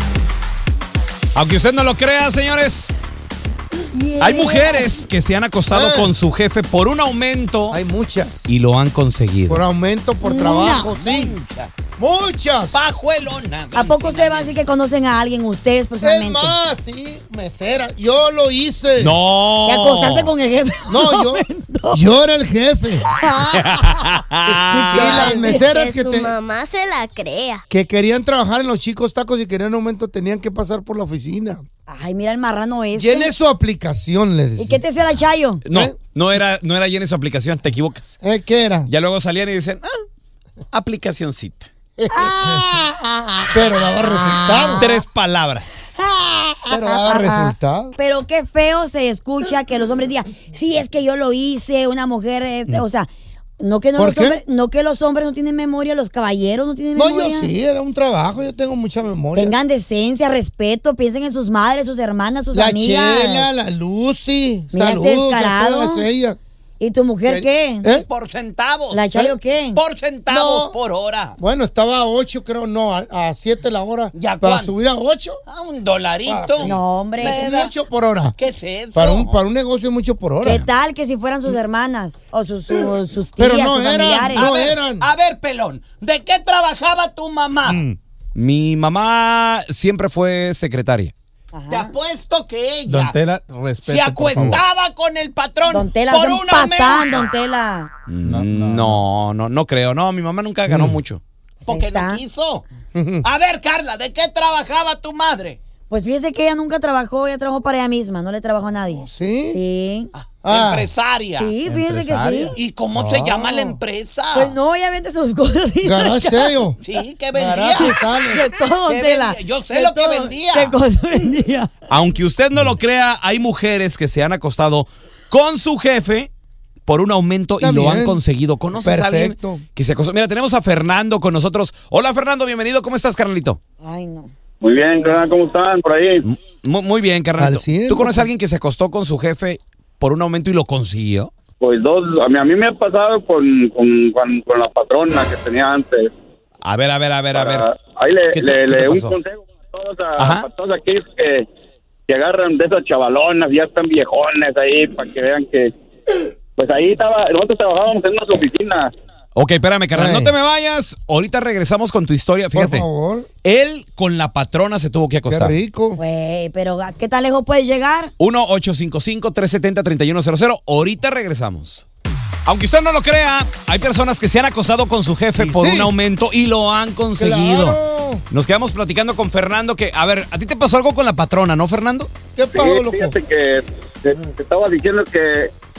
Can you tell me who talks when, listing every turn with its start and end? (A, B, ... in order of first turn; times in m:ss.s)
0:01.4-0:03.0 A
0:03.9-0:05.0 B
0:04.2-0:07.8 A
0:05.7-0:06.2 C
0:07.7-0:08.4 C
0:08.5-0:09.6 A
0:09.5-0:11.4 C
0:10.2-0:10.9 B
0:10.9-0:11.8 A
0:12.0-0:12.8 C
0:12.7-0:14.6 A
0:13.7-0:16.6 B
0:16.0-0:19.2 C
0:19.0-0:20.3 A
0:19.7-0:22.0 B
0:20.9-0:23.0 C
0:23.1-0:24.1 B
0:23.5-0:25.1 A
0:24.7-0:26.0 B
0:24.9-0:26.3 C
0:25.2-0:27.6 D
0:27.7-0:31.6 C
0:31.9-0:33.3 B
0:32.9-0:34.8 C
0:34.6-0:35.6 B
0:35.7-0:38.2 A
0:38.2-0:38.9 C
0:38.9-0:39.9 A
0:40.7-0:41.7 A
0:42.0-0:42.4 C
0:42.1-0:45.0 B
0:43.5-0:45.0 C
0:44.8-0:46.0 A
0:46.0-0:57.5 B
0:46.7-0:48.0 C
0:54.0-0:54.4 C
0:57.0-0:59.6 C
0:59.4-1:03.5 B
1:02.5-1:06.4 C
1:04.7-1:06.1 B
1:06.8-1:07.9 B
1:07.3-1:08.1 C
1:08.0-1:09.1 A
1:08.9-1:09.8 B
1:09.8-1:11.4 A
1:10.3-1:10.8 C
1:11.4-1:15.4 C
1:14.2-1:14.7 A
1:15.5-1:17.7 A
1:16.3-1:18.4 C
1:16.6-1:17.4 B
1:18.4-1:19.4 A
1:18.9-1:20.6 C
1:20.4-1:24.5 B
1:23.4-1:25.1 C
1:24.2-1:27.8 A
1:27.7-1:28.0 C
1:28.4-1:31.1 A
1:31.5-1:31.9 B
1:31.7-1:33.2 A
1:32.9-1:34.6 E
1:33.8-1:37.3 A
1:35.7-1:37.9 B
1:38.1-1:42.6 A
1:38.2-1:39.0 E
1:40.7-1:41.0 C
1:41.6-1:42.2 B
1:43.0-1:43.3 C
1:43.2-1:45.6 A
1:45.9-1:50.1 B
1:48.9-1:49.6 C
1:50.2-1:51.6 A
1:50.4-1:50.9 C
1:51.4-1:52.6 B
1:51.6-1:52.5 E
1:52.5-1:54.6 A
1:52.9-1:53.8 C
1:54.3-1:56.6 B
1:55.8-1:56.8 C
1:56.8-1:57.9 A
1:57.3-1:58.4 C
1:57.8-2:01.7 B
1:58.8-2:00.8 A
2:01.9-2:06.3 A
2:06.9-2:13.6 A
2:07.6-2:08.2 C
2:08.7-2:09.6 C
2:13.8-2:14.3 B
2:14.6-2:16.2 F
2:16.2-2:21.3 A
2:17.4-2:18.3 C
2:21.6-2:26.1 F
2:26.6-2:27.6 A
2:27.3-2:31.5 F
2:28.3-2:29.2 A
2:30.2-2:30.5 A
2:32.1-2:35.7 F
2:36.6-2:38.9 F
2:39.4-2:42.9 A
2:39.9-2:40.4 C
2:42.5-2:43.3 C
2:43.4-2:45.6 A
2:45.3-2:46.0 C
2:46.0-2:48.1 B
2:48.2-2:51.9 A
2:52.5-2:57.8 A
2:55.4-2:55.9 C
2:57.2-2:58.2 C
2:58.3-3:02.1 A
3:02.4-3:03.2 C
3:02.5-3:05.5 F